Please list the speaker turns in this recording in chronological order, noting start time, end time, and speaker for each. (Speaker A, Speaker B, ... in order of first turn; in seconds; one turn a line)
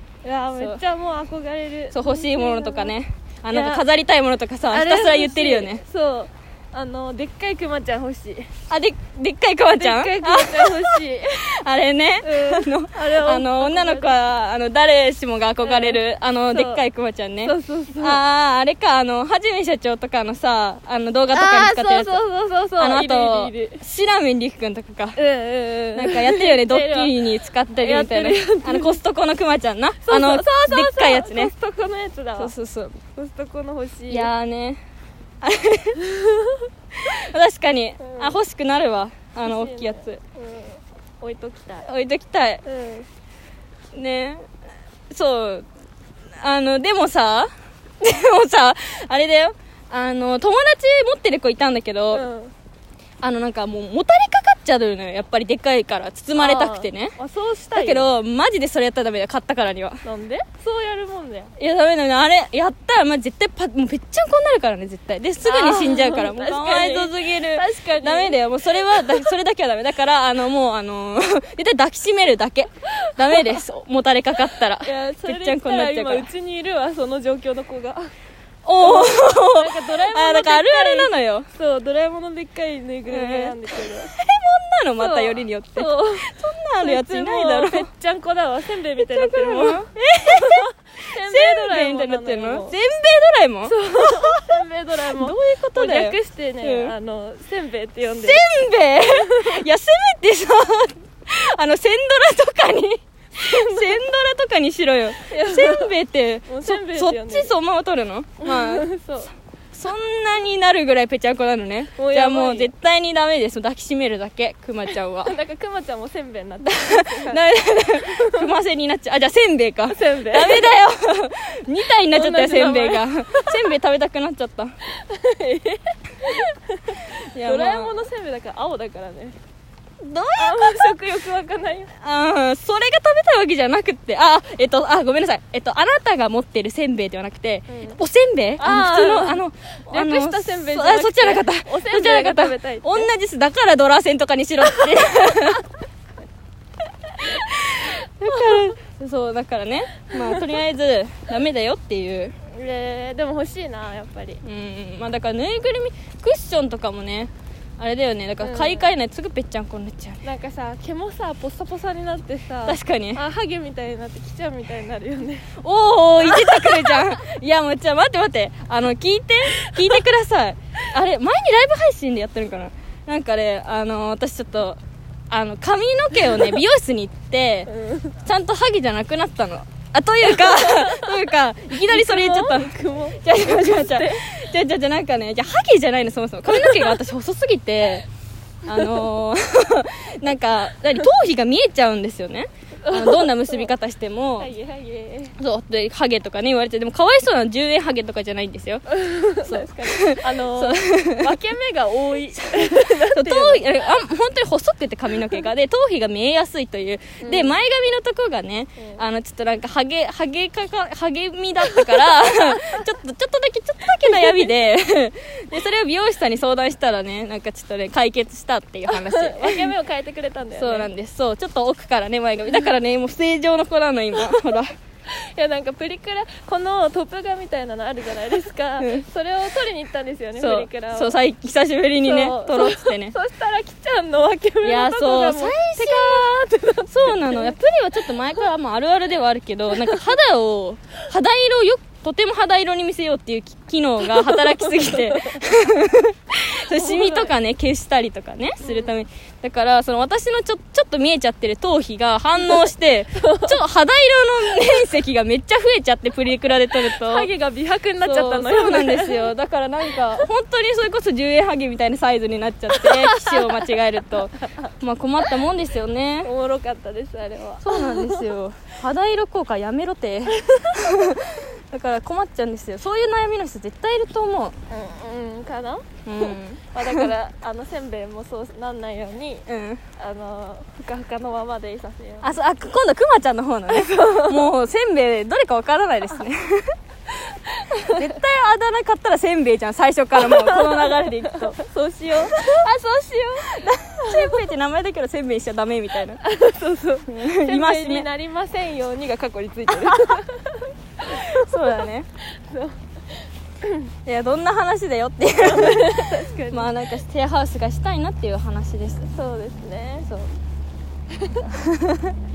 Speaker A: 0.2-2.9
Speaker B: 0.5-0.8
Speaker B: 1.9-5.8
Speaker A: 3.5-3.8
Speaker A: 4.7-8.5
Speaker B: 8.7-22.2
Speaker A: 9.8-11.5
Speaker A: 12.2-14.2
Speaker A: 15.6-16.8
Speaker A: 17.4-18.2
Speaker A: 21.3-23.8
Speaker B: 22.8-25.2
Speaker A: 25.2-27.1
Speaker B: 25.9-31.5
Speaker A: 27.8-29.0
Speaker A: 30.0-32.5
Speaker B: 32.4-33.0
Speaker A: 33.1-34.3
Speaker B: 34.1-34.8
Speaker B: 35.4-36.0
Speaker A: 36.0-36.6
Speaker B: 37.0-40.2
Speaker A: 38.0-38.4
Speaker A: 39.4-41.9
Speaker B: 41.9-42.6
Speaker A: 42.6-43.1
Speaker B: 43.9-44.4
Speaker B: 45.1-45.6
Speaker B: 46.4-47.5
Speaker B: 48.0-52.2
Speaker A: 52.1-52.5
Speaker B: 53.2-57.1
Speaker A: 56.4-58.1
Speaker B: 57.7-60.0
Speaker A: 60.0-61.5
Speaker B: 61.6-76.3
Speaker A: 65.4-69.3
Speaker A: 73.0-73.6
Speaker A: 74.8-78.1
Speaker B: 78.6-81.5
Speaker A: 78.8-84.1
Speaker B: 83.1-87.9
Speaker A: 85.0-92.7
Speaker B: 88.9-96.9
Speaker A: 93.6-98.5
Speaker B: 98.0-108.9
Speaker A: 99.1-99.6
Speaker A: 103.4-104.0
Speaker A: 105.3-105.9
Speaker A: 106.5-107.5
Speaker A: 108.4-109.3
Speaker B: 109.7-115.4
Speaker A: 112.0-112.7
Speaker A: 115.2-118.5
Speaker B: 116.7-124.7
Speaker A: 119.9-120.7
Speaker A: 122.1-123.5
Speaker A: 124.9-129.3
Speaker B: 127.3-128.0
Speaker B: 130.0-131.2
Speaker A: 130.4-131.9
Speaker B: 132.0-145.6
Speaker A: 137.7-138.0
Speaker A: 138.6-143.1
Speaker B: 147.2-152.3
Speaker A: 148.3-148.7
Speaker A: 152.5-154.4
Speaker B: 154.4-160.2
Speaker A: 158.4-158.9
Speaker A: 160.2-165.5
Speaker B: 162.7-163.2
Speaker B: 165.6-174.8
Speaker A: 166.2-167.1
Speaker A: 169.6-170.0
Speaker B: 175.3-177.7
Speaker A: 177.7-178.2
Speaker B: 178.2-188.0
Speaker A: 180.2-181.2
Speaker A: 181.9-184.3
Speaker A: 186.5-186.9
Speaker B: 188.6-194.5
Speaker A: 192.8-193.7
Speaker A: 194.4-195.3
Speaker B: 195.4-198.8
Speaker A: 198.9-203.6
Speaker B: 199.4-201.4
Speaker B: 202.3-219.7
Speaker A: 207.2-207.6
Speaker A: 211.7-212.8
Speaker A: 218.9-220.9
Speaker B: 220.5-224.7
Speaker A: 225.1-231.2
Speaker B: 228.8-229.1
Speaker B: 230.4-233.2
Speaker A: 232.0-237.6
Speaker B: 234.6-257.3
Speaker A: 244.1-245.4
Speaker A: 246.7-247.3
Speaker A: 248.6-248.9
Speaker A: 252.4-253.5
Speaker A: 256.9-259.3
Speaker B: 258.0-266.3
Speaker A: 262.7-263.7
Speaker A: 266.2-268.2
Speaker B: 267.6-274.5
Speaker A: 270.4-270.8
Speaker A: 274.7-279.4
Speaker B: 276.1-277.1
Speaker B: 279.5-279.8
Speaker A: 280.0-282.3
Speaker B: 282.2-286.7
Speaker A: 283.7-284.4
Speaker A: 287.5-288.1
Speaker B: 287.8-292.6
Speaker A: 290.2-294.4
Speaker B: 293.5-296.2
Speaker A: 296.2-301.4
Speaker B: 297.1-298.1
Speaker B: 299.7-300.2
Speaker B: 301.1-302.1
Speaker A: 302.4-302.8
Speaker A: 303.6-303.9
Speaker B: 304.1-309.1
Speaker A: 305.4-306.7
Speaker A: 309.1-310.1
Speaker A: 311.2-311.5
Speaker B: 311.5-312.1